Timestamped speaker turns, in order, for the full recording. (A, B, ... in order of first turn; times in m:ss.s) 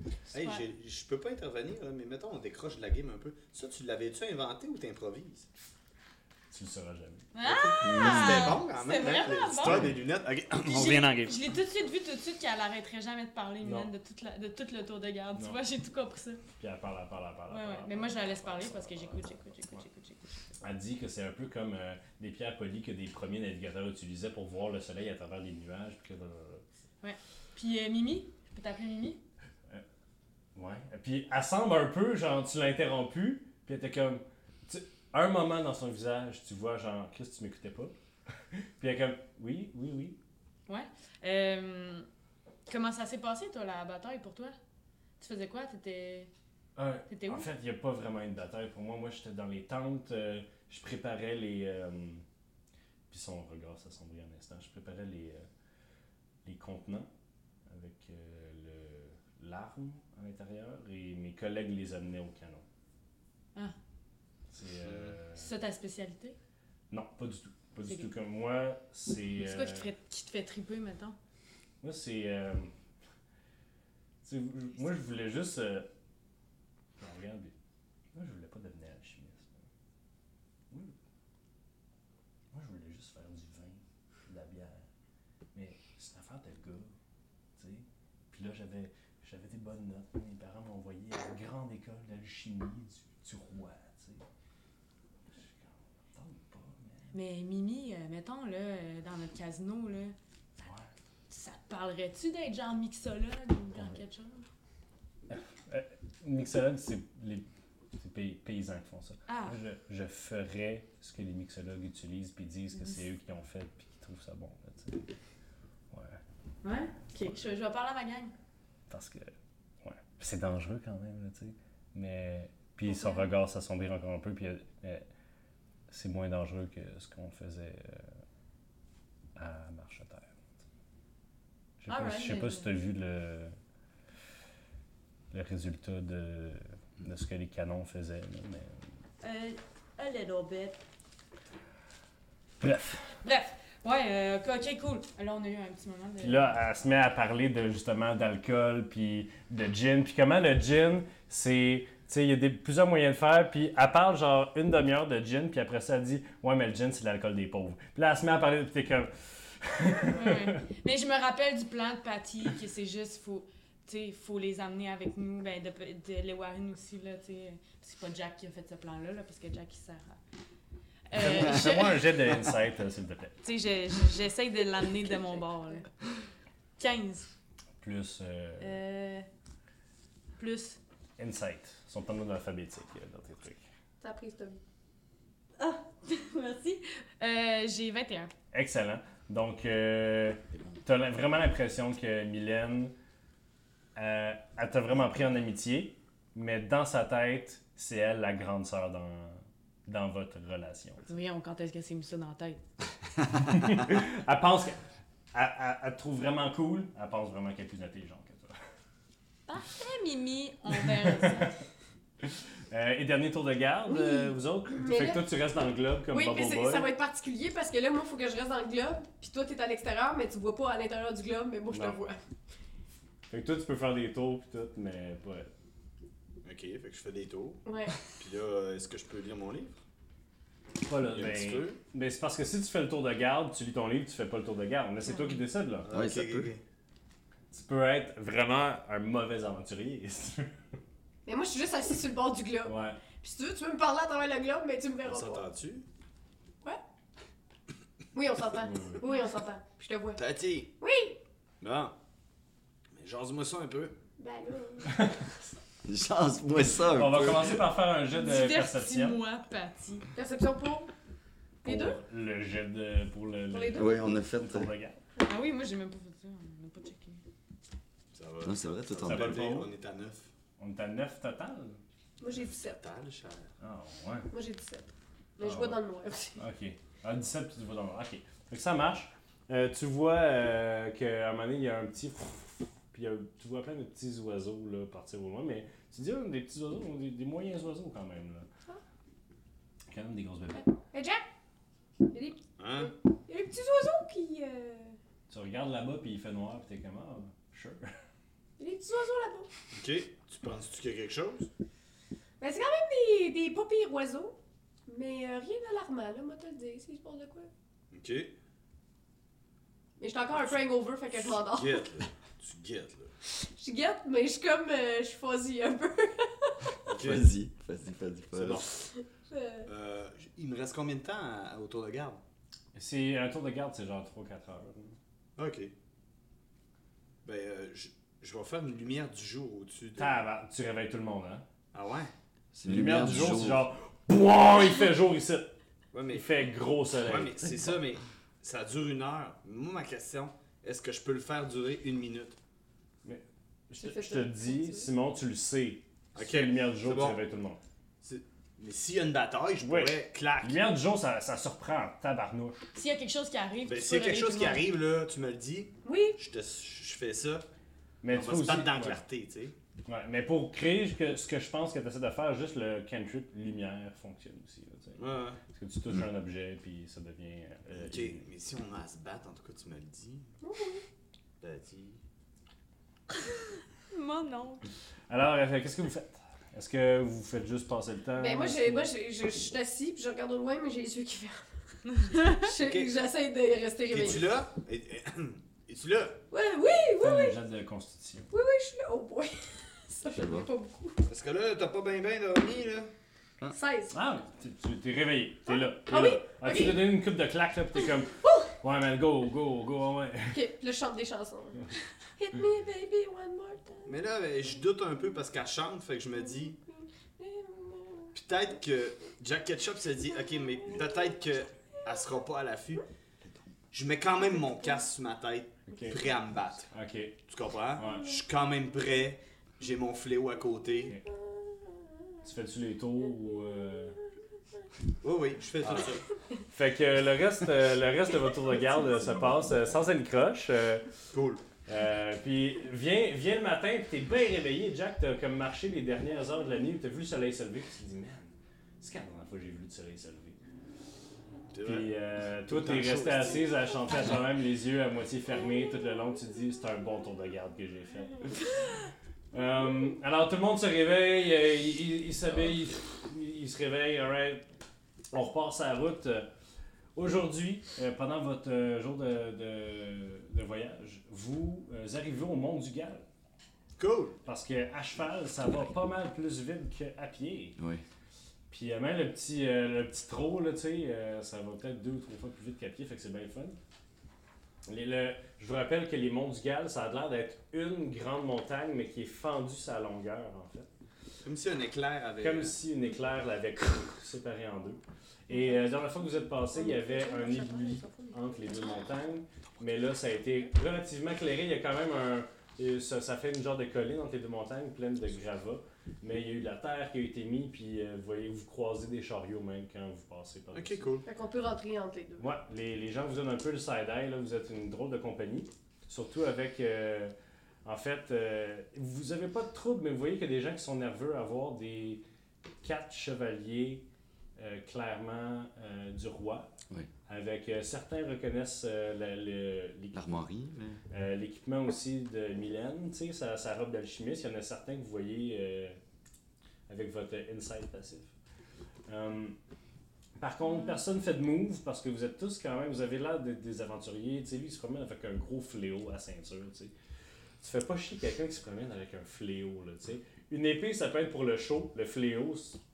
0:00.3-0:05.5 A
0:00.3-0:00.6 B
0:06.5-0:07.3 C
0:07.3-0:09.9 B
0:07.4-0:11.1 A
0:07.8-0:08.6 D
0:09.6-0:09.9 D
0:10.6-0:16.4 B
0:10.8-0:11.3 C
0:13.6-0:13.9 C
0:15.3-0:15.6 C
0:16.6-0:19.8 C
0:17.5-0:20.4 B
0:20.6-0:26.6 C
0:27.0-0:29.2 B
0:30.5-0:37.9 C
0:38.5-0:40.2 C
0:40.7-0:42.1 B
0:42.7-0:44.5 B
0:45.2-0:46.3 B
0:46.8-0:52.2 C
0:47.1-0:47.5 B
0:53.1-0:55.5 C
0:56.4-0:57.1 C
0:57.7-1:02.6 C
1:04.5-1:05.5 C
1:04.8-1:05.2 A
1:05.4-1:06.4 B
1:06.9-1:09.9 C
1:07.8-1:08.1 B
1:09.4-1:11.2 B
1:11.8-1:12.7 C
1:14.2-1:15.9 C
1:17.0-1:17.5 C
1:18.1-1:19.6 C
1:20.7-1:20.9 C
1:22.5-1:24.8 C
1:25.5-1:26.9 C
1:27.6-1:34.2 C
1:35.3-1:37.1 C
1:37.1-1:40.1 B
1:40.6-1:40.9 C
1:41.3-1:44.4 B
1:45.3-1:47.4 C
1:48.0-1:55.0 C
1:49.3-1:49.6 B
1:55.9-1:56.2 C
1:56.6-1:58.3 B
1:58.9-2:05.0 C
2:02.9-2:03.2 B
2:05.9-2:08.1 C
2:09.4-2:10.3 C
2:11.8-2:13.5 C
2:11.9-2:12.7 B
2:15.3-2:18.7 C
2:19.2-2:20.8 B
2:22.6-2:23.1 C
2:23.2-2:26.6 B
2:26.2-2:40.6 C
2:40.1-2:50.2 B
2:51.1-2:52.1 B
2:51.1-2:53.4 C
2:53.4-2:55.9 B
2:56.8-2:57.3 B
2:57.8-2:58.8 C
2:58.6-2:59.3 B
3:00.4-3:00.8 B
3:01.2-3:03.6 C
3:04.0-3:04.6 E
3:05.6-3:08.3 B
3:08.5-3:12.9 C
3:13.9-3:21.1 C
3:21.1-3:22.6 B
3:23.3-3:24.8 C
3:25.3-3:28.5 C
3:29.5-3:31.6 B
3:32.2-3:36.9 C
3:33.9-3:35.2 E
3:36.1-3:42.2 E
3:41.7-3:42.0 C
3:43.3-3:45.5 C
3:46.4-3:49.8 A
3:47.6-3:48.0 E
3:50.8-3:55.9 C
3:51.1-3:51.8 A
3:55.8-3:56.6 A
3:55.9-3:56.5 D
3:57.5-4:00.5 C
4:01.2-4:05.5 E
4:02.6-4:03.0 C
4:05.0-4:05.8 A
4:08.1-4:10.2 E
4:08.6-4:09.0 C
4:10.2-4:10.7 A
4:10.8-4:11.2 E
4:11.6-4:11.9 A
4:13.0-4:13.9 A
4:14.2-4:15.0 E
4:14.8-4:15.3 C
4:15.8-4:17.6 D
4:16.8-4:19.2 C
4:18.1-4:20.1 B
4:20.1-4:20.9 E
4:21.6-4:22.0 E
4:21.6-4:25.0 C
4:23.5-4:24.0 E
4:23.7-4:24.7 D
4:25.2-4:27.2 B
4:28.1-4:30.3 A
4:28.4-4:29.4 D
4:29.0-4:29.7 C
4:30.6-4:31.8 C
4:32.2-4:32.8 E
4:32.2-4:33.5 A
4:33.6-4:34.3 C
4:34.3-4:36.4 E
4:35.4-4:35.8 C
4:36.4-4:48.5 C
4:49.9-4:50.7 C
4:50.9-4:51.2 E
4:52.1-4:55.0 E
4:52.6-4:52.9 A
4:55.3-4:57.9 C
4:58.6-4:59.5 E
4:59.7-5:01.5 A
5:02.4-5:04.3 E
5:04.9-5:07.5 E
5:07.9-5:08.3 A
5:10.0-5:11.9 E
5:11.4-5:13.1 A
5:13.2-5:16.7 E
5:16.8-5:17.3 A
5:17.0-5:18.6 D
5:18.3-5:18.8 A
5:18.9-5:19.7 E
5:19.6-5:22.2 A
5:22.7-5:25.0 C
5:25.4-5:25.7 A
5:27.2-5:30.2 A
5:30.0-5:31.4 C
5:31.7-5:32.1 A
5:32.5-5:33.6 D
5:32.6-5:35.5 C
5:35.9-5:36.3 A
5:36.1-5:37.8 C
5:37.0-5:42.4 A
5:43.0-5:47.6 C
5:43.8-5:44.9 E
5:46.1-5:47.2 A
5:48.0-5:50.7 A
5:49.6-5:52.6 C
5:52.7-5:54.6 B
5:53.6-5:57.4 A
5:55.8-5:56.2 E
5:58.0-5:59.0 C
5:58.1-5:59.5 A
5:59.8-6:08.2 C
6:05.0-6:05.4 A
6:07.7-6:10.3 A
6:10.4-6:10.8 E
6:11.4-6:12.0 A
6:13.9-6:14.6 B
6:15.1-6:18.9 C
6:18.2-6:24.3 E
6:22.6-6:22.9 A
6:23.9-6:26.2 A
6:26.3-6:27.4 E
6:27.0-6:28.3 C
6:28.3-6:31.0 E
6:30.1-6:30.5 D
6:31.1-6:32.9 A
6:33.5-6:33.9 E
6:33.9-6:40.4 C
6:35.5-6:36.8 E
6:38.2-6:38.5 E
6:40.3-6:43.9 E
6:43.8-6:46.6 A
6:46.7-6:48.1 E
6:48.1-6:52.8 A
6:50.7-6:50.9 E
6:53.7-6:56.7 A
6:55.7-6:57.2 C
6:57.2-7:01.0 A
6:57.7-6:58.1 C
7:02.2-7:04.0 C
7:05.0-7:06.0 A
7:05.6-7:05.9 C
7:06.5-7:11.0 C
7:11.1-7:11.4 A
7:11.6-7:20.4 C
7:21.5-7:23.5 A
7:21.6-7:28.3 C
7:29.3-7:34.5 C
7:35.1-7:36.3 C
7:36.9-7:43.0 C
7:43.8-7:44.2 A
7:44.2-7:47.6 C
7:47.6-7:47.8 D
7:48.5-7:53.6 C
7:54.7-8:00.7 C
8:01.2-8:02.6 A
8:02.2-8:20.9 C
8:06.5-8:08.2 E
8:20.5-8:21.0 A
8:21.0-8:22.2 E
8:22.2-8:27.1 C
8:27.6-8:32.0 C
8:32.6-8:33.8 C
8:34.4-8:36.5 C
8:37.1-8:40.3 C
8:39.9-8:40.8 D
8:40.9-8:45.8 C
8:46.7-8:48.1 C
8:48.9-8:49.4 C
8:50.2-8:56.7 C
8:57.4-9:02.6 C